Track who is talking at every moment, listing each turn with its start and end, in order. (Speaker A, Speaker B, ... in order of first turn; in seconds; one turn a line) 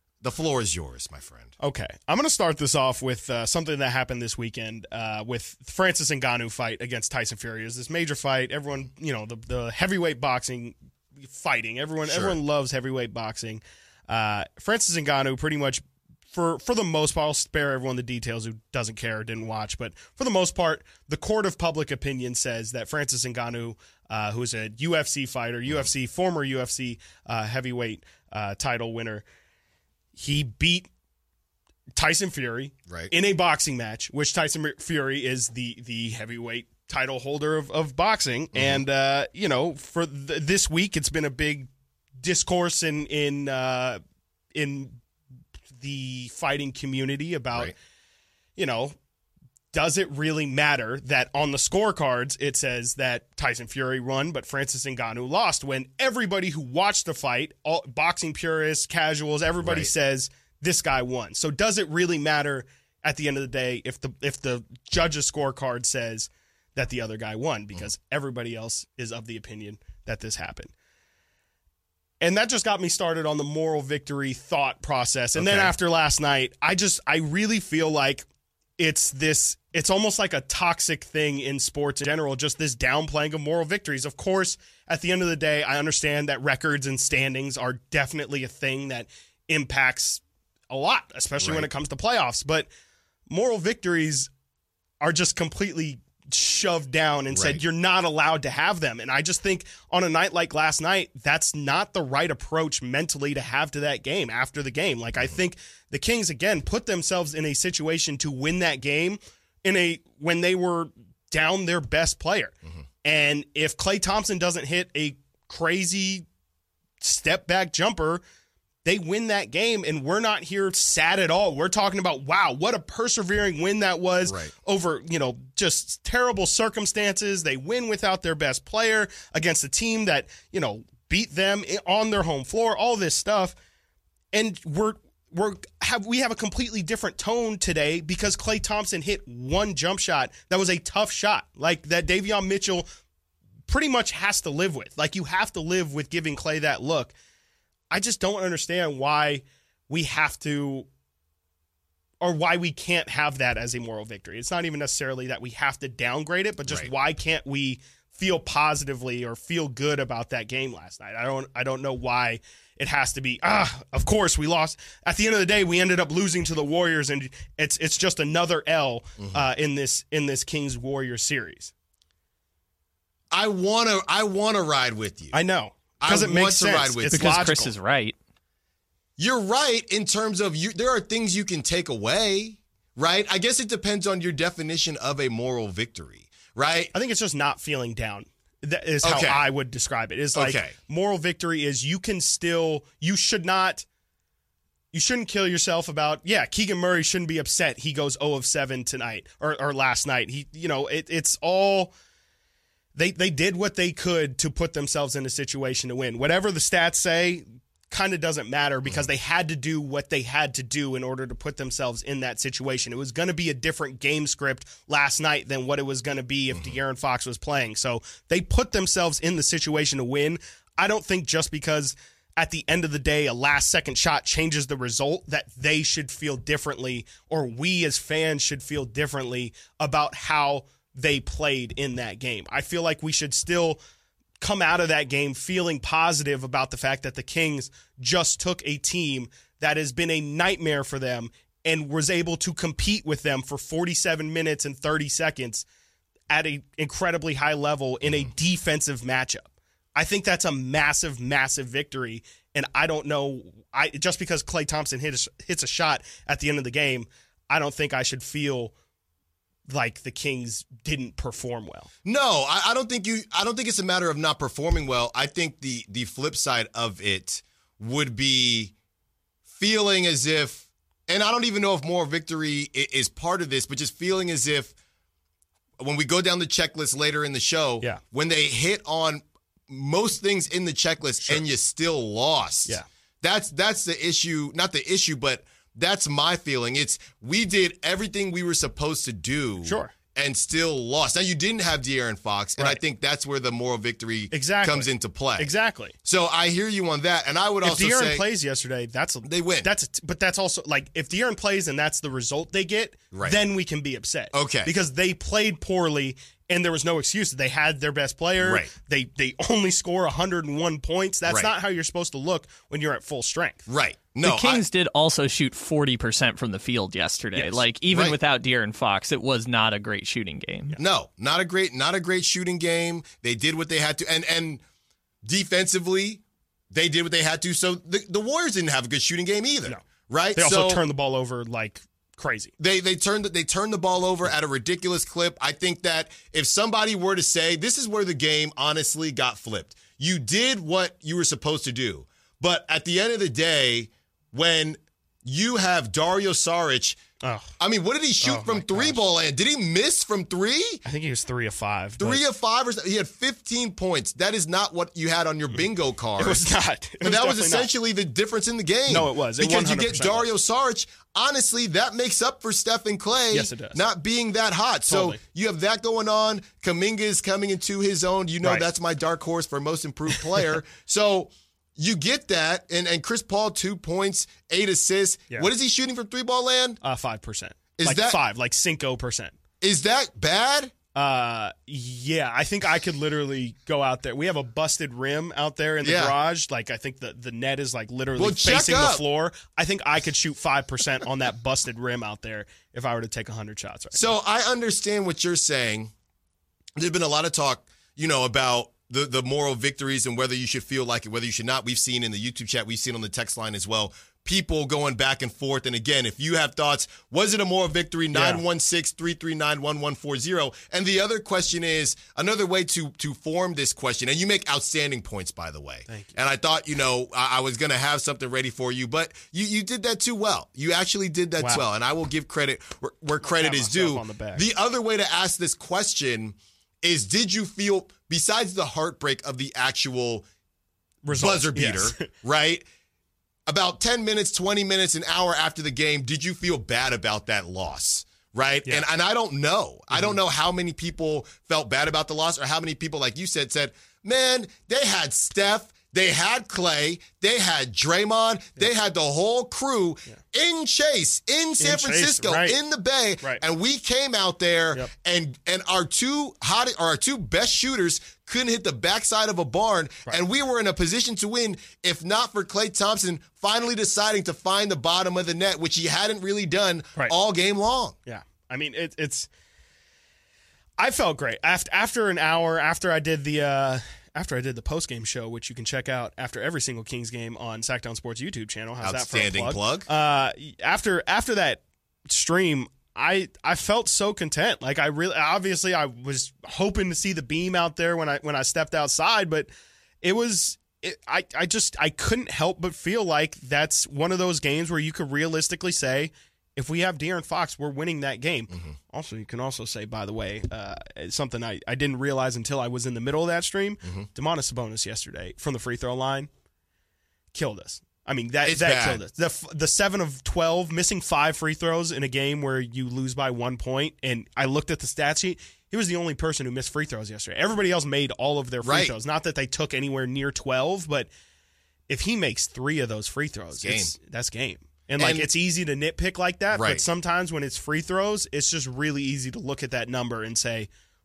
Speaker A: 0.2-1.5
Speaker B: 1.6-29.2
Speaker A: 12.0-12.4
Speaker B: 30.1-30.9
Speaker B: 31.9-44.0
Speaker A: 32.9-33.1
Speaker A: 38.5-38.8
Speaker B: 44.5-45.0
Speaker B: 45.7-47.7
Speaker B: 48.5-49.0
Speaker B: 49.7-70.7
Speaker A: 59.6-59.9
Speaker B: 72.2-78.2
Speaker A: 75.3-75.7
Speaker B: 78.8-92.7
Speaker A: 91.4-91.7
Speaker B: 93.3-94.3
Speaker B: 95.0-116.2
Speaker A: 97.3-97.6
Speaker B: 117.0-118.2
Speaker B: 118.8-133.5
Speaker A: 124.2-124.5
Speaker B: 134.3-142.9
Speaker B: 143.7-147.1
Speaker B: 147.9-150.9
Speaker B: 152.2-171.7
Speaker A: 156.7-156.9
Speaker A: 169.2-169.4
Speaker A: 173.3-175.3
Speaker B: 175.3-177.7
Speaker A: 176.0-177.4
Speaker C: 177.1-178.1
Speaker A: 179.2-186.9
Speaker B: 186.9-193.8
Speaker A: 189.0-189.5
Speaker A: 190.3-190.7
Speaker B: 194.9-201.9
Speaker B: 202.9-233.8
Speaker A: 208.8-209.1
Speaker A: 216.5-216.8
Speaker B: 234.4-245.6
Speaker B: 246.3-258.7
Speaker A: 248.0-248.3
Speaker B: 259.7-261.9
Speaker A: 262.0-268.7
Speaker A: 269.5-274.7
Speaker A: 275.8-295.5
Speaker B: 289.6-289.9
Speaker B: 294.3-295.9
Speaker A: 296.0-298.3
Speaker B: 297.6-313.7
Speaker A: 299.2-299.7
Speaker A: 303.1-303.4
Speaker A: 304.3-304.7
Speaker A: 308.4-308.7
Speaker A: 311.2-311.5
Speaker A: 313.7-314.6
Speaker C: 314.2-320.8
Speaker B: 317.3-317.6
Speaker A: 317.9-318.2
Speaker A: 320.8-324.6
Speaker A: 325.2-330.8
Speaker B: 330.3-332.5
Speaker A: 332.6-347.0
Speaker B: 347.2-347.5
Speaker A: 347.6-350.8
Speaker B: 348.2-349.0
Speaker B: 350.8-352.2
Speaker A: 352.0-356.5
Speaker B: 356.2-357.7
Speaker A: 357.0-376.8
Speaker B: 358.9-360.3
Speaker B: 363.3-363.8
Speaker B: 364.9-365.2
Speaker B: 376.8-379.3
Speaker A: 377.8-378.2
Speaker A: 379.6-380.7
Speaker B: 380.9-394.1
Speaker A: 385.8-386.1
Speaker A: 388.1-389.0
Speaker A: 393.9-395.9
Speaker A: 396.8-430.2
Speaker B: 408.1-408.4
Speaker B: 415.9-416.1
Speaker B: 421.4-421.6
Speaker B: 423.2-424.4
Speaker B: 431.0-432.1
Speaker A: 431.1-432.6
Speaker A: 433.5-467.9
Speaker B: 451.6-452.6
Speaker B: 468.1-469.3
Speaker B: 470.8-489.5
Speaker A: 478.8-479.9
Speaker B: 490.0-506.3
Speaker A: 498.5-498.8
Speaker B: 507.3-521.1
Speaker A: 508.4-509.0
Speaker A: 518.6-519.0
Speaker B: 521.9-530.7
Speaker A: 523.6-523.9
Speaker A: 525.0-525.3
Speaker A: 526.5-526.8